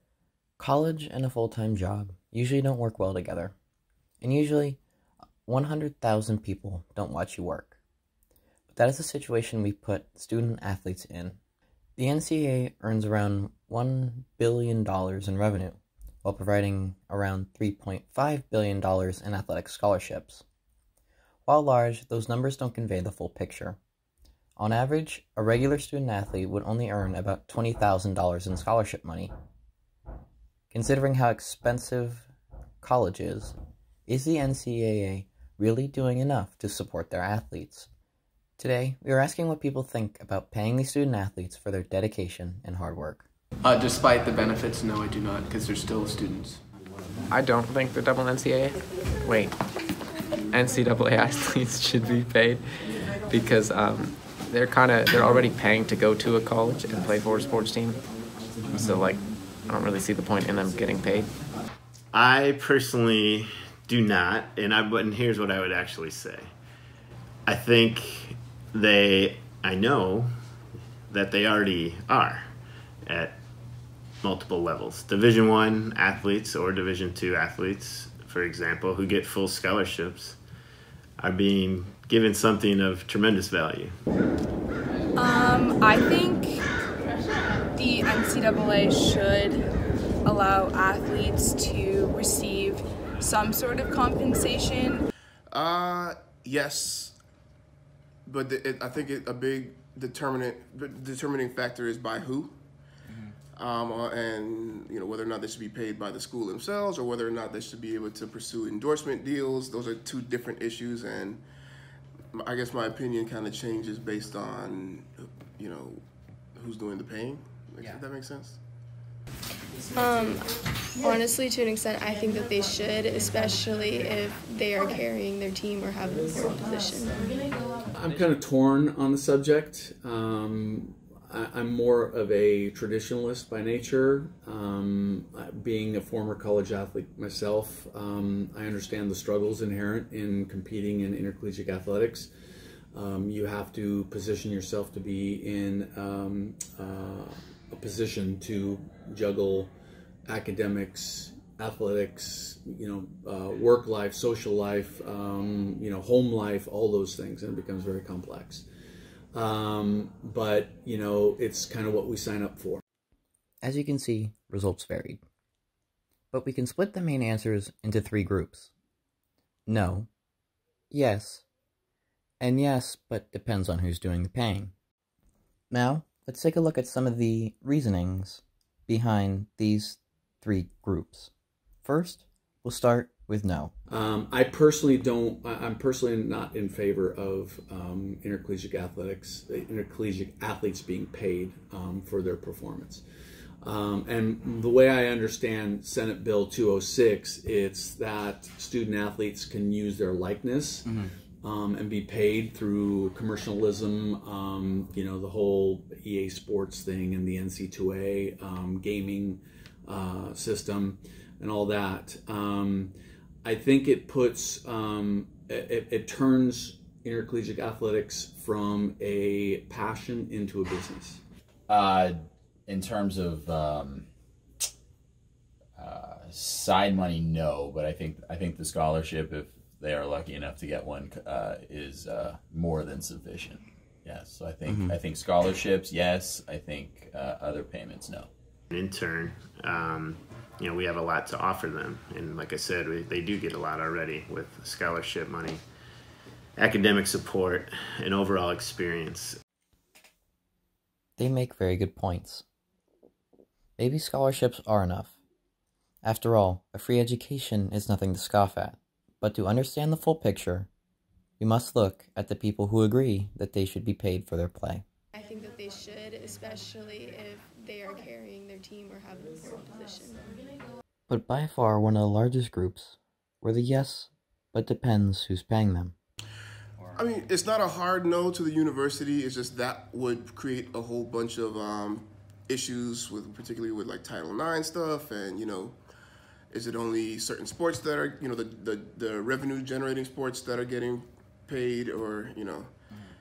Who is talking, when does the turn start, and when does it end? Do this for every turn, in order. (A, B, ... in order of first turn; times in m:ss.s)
0:00.6-0:03.5 A
0:04.2-0:04.8 A
0:05.5-0:07.8 A
0:08.7-0:11.4 A
0:12.0-0:20.4 A
0:21.4-0:23.8 A
0:24.6-0:29.3 A
0:30.7-0:32.3 A
0:32.8-0:33.5 A
0:34.1-0:37.9 A
0:38.6-0:43.3 A
0:43.7-0:46.6 B
0:47.3-0:49.5 C
0:50.5-0:52.6 C
0:53.2-0:58.0 C
0:58.7-1:01.3 C
1:02.1-1:06.5 D
1:07.5-1:10.3 D
1:11.1-1:12.5 D
1:13.0-1:13.3 D
1:14.2-1:20.4 D
1:21.2-1:23.9 D
1:25.1-1:26.6 E
1:27.7-1:29.6 E
1:30.2-1:35.0 E
1:35.5-1:37.2 F
1:38.2-1:42.6 F
1:43.6-1:51.4 F
1:52.3-1:56.0 F
1:56.6-1:58.6 F
1:59.9-2:00.5 G
2:01.0-2:07.5 G
2:07.9-2:22.3 H
2:22.9-2:29.7 H
2:30.3-2:38.6 H
2:39.3-2:42.8 H
2:43.6-2:45.2 A
2:46.3-2:48.7 A
2:49.7-2:50.1 A
2:50.9-2:51.4 A
2:52.4-2:54.7 A
2:55.7-3:01.3 A
3:01.8-3:03.7 A
3:03.9-3:13.0 H
3:13.6-3:41.2 H
3:41.7-3:44.1 I
3:45.8-3:58.3 I
3:58.7-4:05.6 D
4:06.6-4:09.4 D
4:11.2-4:12.4 A
4:13.8-4:15.2 A
4:16.0-4:20.7 A
4:21.4-4:24.8 A
4:25.1-4:30.4 G
4:31.1-4:35.9 A
4:36.9-4:45.8 F
4:46.5-4:52.7 F